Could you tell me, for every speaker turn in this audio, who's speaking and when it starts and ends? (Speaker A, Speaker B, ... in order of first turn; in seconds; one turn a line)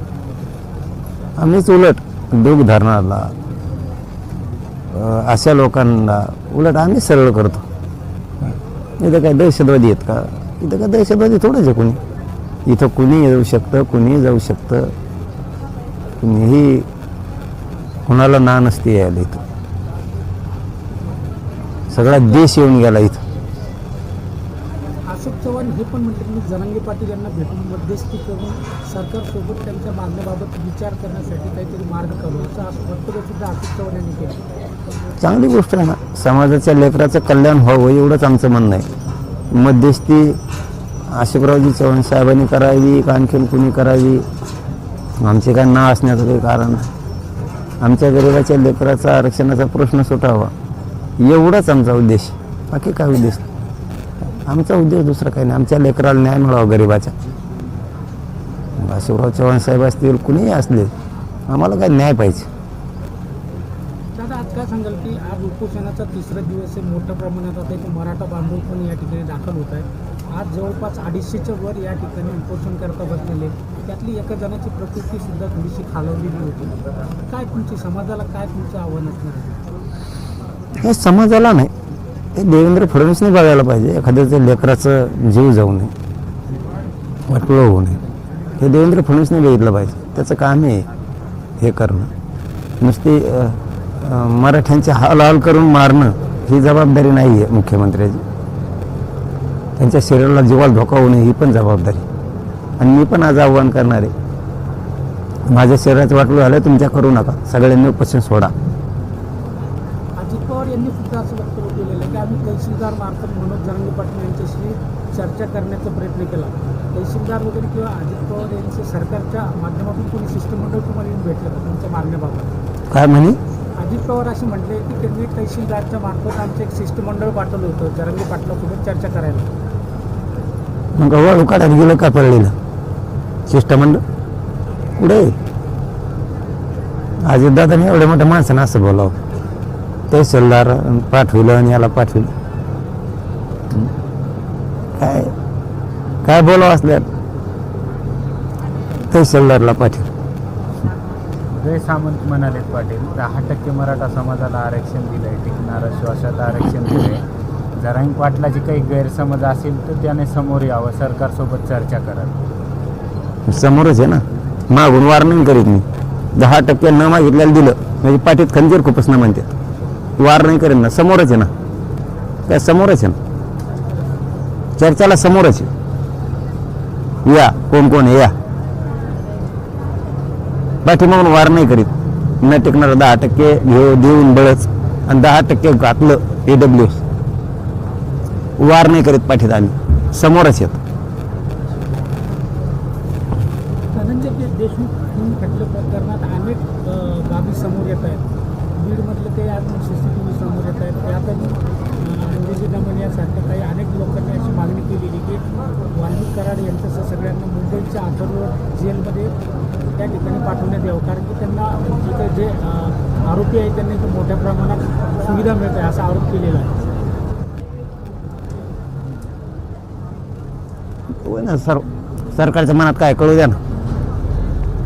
Speaker A: 1.4-3.3
Speaker A: 4.9-7.7
Speaker A: 9.0-12.0
Speaker A: 12.7-14.9
Speaker A: 16.2-16.9
Speaker A: 18.1-19.4
Speaker A: 21.9-23.2
Speaker B: 25.1-34.4
Speaker A: 35.2-38.9
Speaker A: 39.5-40.4
Speaker A: 41.1-44.2
Speaker A: 45.2-46.9
Speaker A: 47.8-50.5
Speaker A: 51.2-53.5
Speaker A: 54.5-57.1
Speaker A: 58.8-60.9
Speaker A: 61.5-62.5
Speaker B: 64.2-76.8
Speaker B: 77.3-79.6
Speaker A: 80.8-81.7
Speaker A: 82.3-85.9
Speaker A: 87.3-88.0
Speaker A: 88.6-90.9
Speaker A: 91.6-92.1
Speaker A: 92.8-98.2
Speaker A: 99.8-102.0
Speaker A: 102.8-104.1
Speaker A: 105.5-108.5
Speaker B: 110.2-122.5
Speaker A: 122.9-123.4
Speaker B: 123.8-129.5
Speaker A: 131.0-132.5
Speaker A: 133.5-134.0
Speaker A: 135.0-135.3
Speaker A: 137.2-139.2
Speaker A: 140.1-142.3
Speaker A: 145.0-145.3
Speaker A: 146.2-147.1
Speaker A: 149.1-150.1
Speaker C: 151.6-157.2
Speaker C: 157.8-162.3
Speaker A: 163.5-165.8
Speaker A: 166.4-169.5
Speaker A: 170.2-171.5
Speaker A: 172.5-173.2
Speaker A: 174.8-175.7
Speaker A: 177.3-178.3
Speaker A: 180.8-187.0
Speaker A: 188.6-190.8
Speaker B: 193.9-209.3
Speaker B: 210.0-216.7
Speaker A: 221.2-223.6